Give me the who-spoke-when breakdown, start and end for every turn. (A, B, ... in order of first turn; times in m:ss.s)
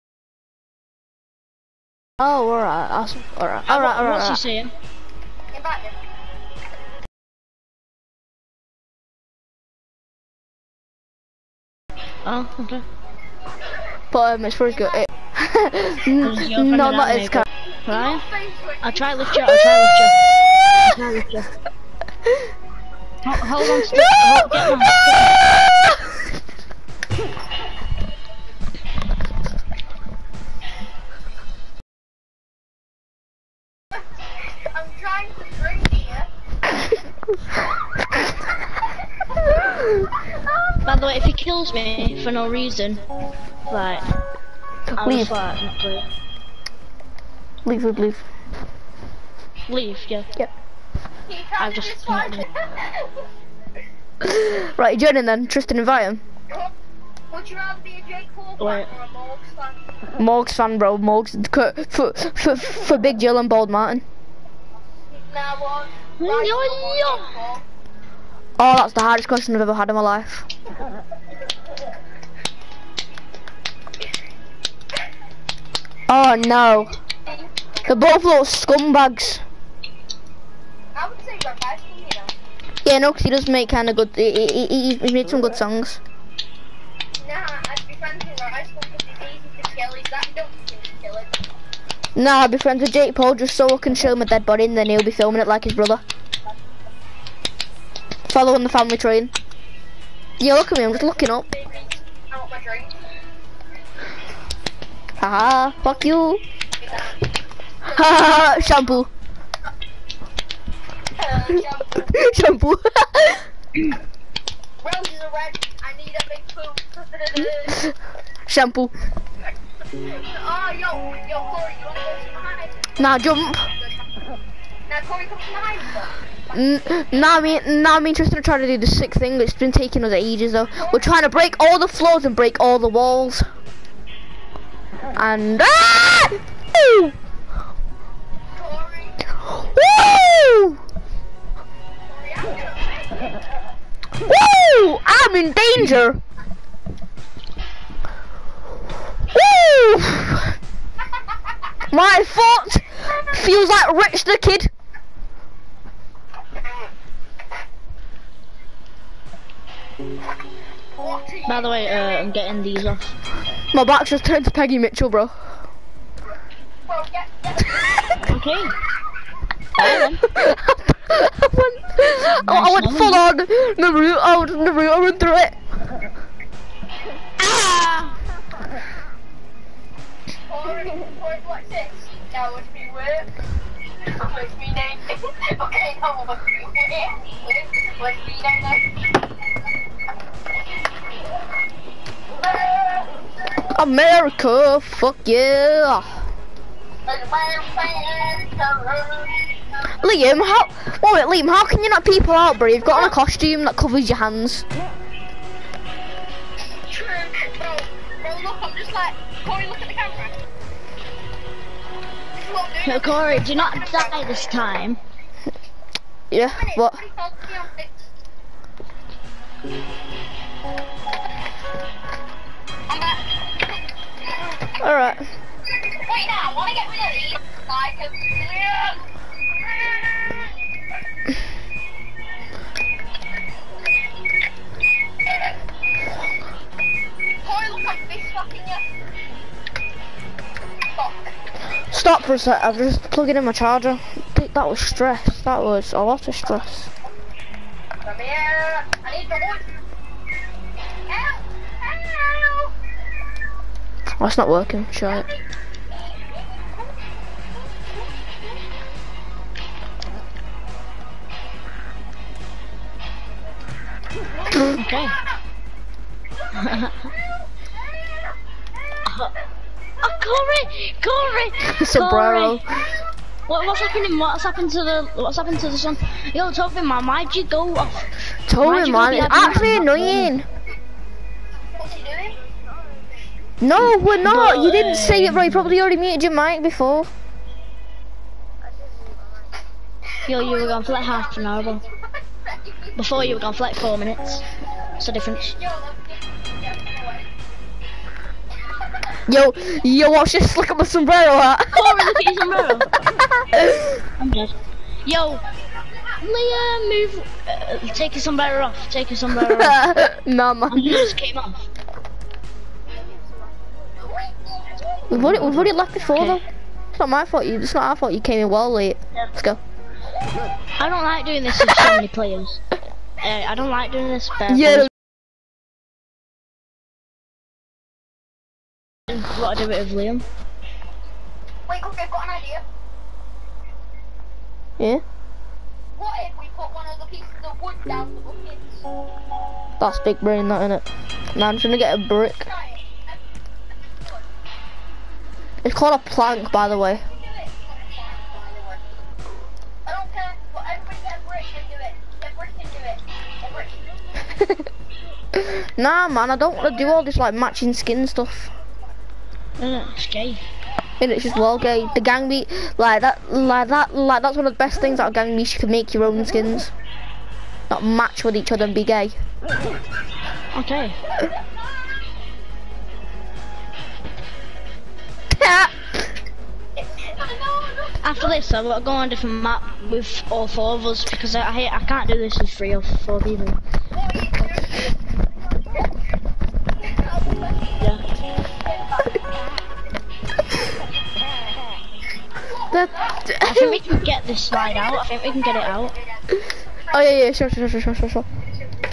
0:02.2-0:04.4 A
0:03.7-0:04.7 B
0:05.5-0:06.0 C
0:12.2-0:12.8 B
0:14.1-0:17.5 A
0:16.2-0:18.2 B
0:17.8-0:19.3 C
0:18.8-0:20.2 B
0:20.8-0:21.5 B
0:23.2-0:25.4 B
0:23.9-0:24.2 A
0:34.7-0:36.3 C
0:40.8-0:43.0 B
0:43.7-0:44.1 B
0:44.9-0:45.3 A
0:45.0-0:46.0 B
0:47.6-0:48.2 A
0:49.7-0:50.3 B
0:51.3-0:53.2 C
0:51.6-0:52.4 B
0:54.2-0:56.2 A
0:57.3-0:59.8 C
0:58.6-0:58.9 B
1:00.2-1:04.0 A
1:05.2-1:07.6 C
1:06.2-1:07.3 B
1:08.6-1:10.5 A
1:16.1-1:17.0 A
1:17.9-1:19.4 A
1:21.0-1:22.3 C
1:22.8-1:26.0 A
1:27.2-1:31.4 C
1:32.2-1:36.0 A
1:38.3-1:39.3 A
1:40.4-1:41.5 A
1:41.3-1:43.0 C
1:45.2-1:46.4 A
1:46.8-1:47.1 C
1:47.8-1:48.7 C
1:47.9-1:49.1 A
1:51.2-1:52.1 C
1:52.0-1:53.5 A
1:54.8-1:57.8 C
1:58.5-1:58.9 A
2:00.0-2:02.9 C
2:03.0-2:03.7 A
2:04.9-2:06.2 C
2:06.5-2:13.5 A
2:15.2-2:17.2 A
2:18.5-2:19.3 C
2:19.5-2:20.8 A
2:22.1-2:23.3 C
2:24.2-2:26.2 A
2:29.3-2:30.5 A
2:31.9-2:34.7 A
2:41.0-2:42.3 C
2:41.5-2:43.2 B
2:43.7-2:45.5 A
2:46.9-2:48.3 C
2:48.2-2:48.8 B
2:49.8-2:50.2 B
2:49.8-2:55.6 A
2:52.4-2:53.2 B
2:57.4-2:58.1 B
3:00.5-3:03.3 C
3:04.0-3:08.9 C
3:12.3-3:13.2 C
3:13.7-3:16.2 A
3:17.1-3:19.6 C
3:20.0-3:24.6 A
3:22.9-3:23.2 C
3:26.8-3:30.4 C
3:32.4-3:34.6 C
3:32.8-3:35.0 B
3:36.3-3:37.0 A
3:36.4-3:37.9 C
3:42.9-3:43.4 C
3:44.8-3:45.3 A
3:45.9-3:49.0 C
3:49.6-3:50.4 C
3:57.4-3:58.9 C
4:01.0-4:01.4 C
4:01.9-4:06.9 A
4:08.0-4:09.8 C
4:11.1-4:12.7 C
4:14.2-4:15.3 A
4:24.7-4:25.2 B
4:26.5-4:27.0 C
4:26.6-4:27.0 B
4:29.1-4:29.3 B
4:30.0-4:32.6 B
4:31.6-4:32.7 A
4:33.5-4:40.3 B
4:38.5-4:40.5 A
4:41.8-4:42.4 C
4:43.6-4:47.1 A
4:44.2-4:45.8 B
4:50.2-4:53.0 C
4:50.3-4:51.8 B
4:53.0-4:54.5 B
4:55.0-4:55.6 B
4:55.5-4:57.3 C
4:59.3-5:02.1 A
5:01.7-5:02.9 B
5:03.6-5:03.9 A
5:04.1-5:05.4 B
5:06.2-5:09.8 B
5:09.5-5:11.0 A
5:10.7-5:11.6 B
5:14.0-5:15.1 C
5:15.1-5:19.6 A
5:15.1-5:16.4 B
5:20.8-5:22.6 B
5:23.2-5:24.9 B
5:24.5-5:24.9 A
5:29.1-5:30.2 B
5:31.7-5:32.6 C
5:34.8-5:35.0 A
5:35.9-5:38.8 C
5:39.8-5:42.5 A
5:42.4-5:43.2 C
5:45.6-5:47.0 A
5:47.1-5:48.9 C
5:49.9-5:53.9 C
5:55.4-5:58.5 A
5:59.6-6:00.4 B
6:01.0-6:06.7 A
6:07.7-6:09.2 A
6:10.5-6:11.0 B
6:15.4-6:15.9 A
6:16.8-6:18.3 C
6:18.0-6:23.6 B
6:23.9-6:24.8 C
6:26.8-6:27.9 C
6:28.6-6:29.2 C
6:32.4-6:33.3 C
6:32.7-6:33.9 A
6:33.4-6:35.9 B
6:35.8-6:36.2 C
6:36.9-6:38.3 A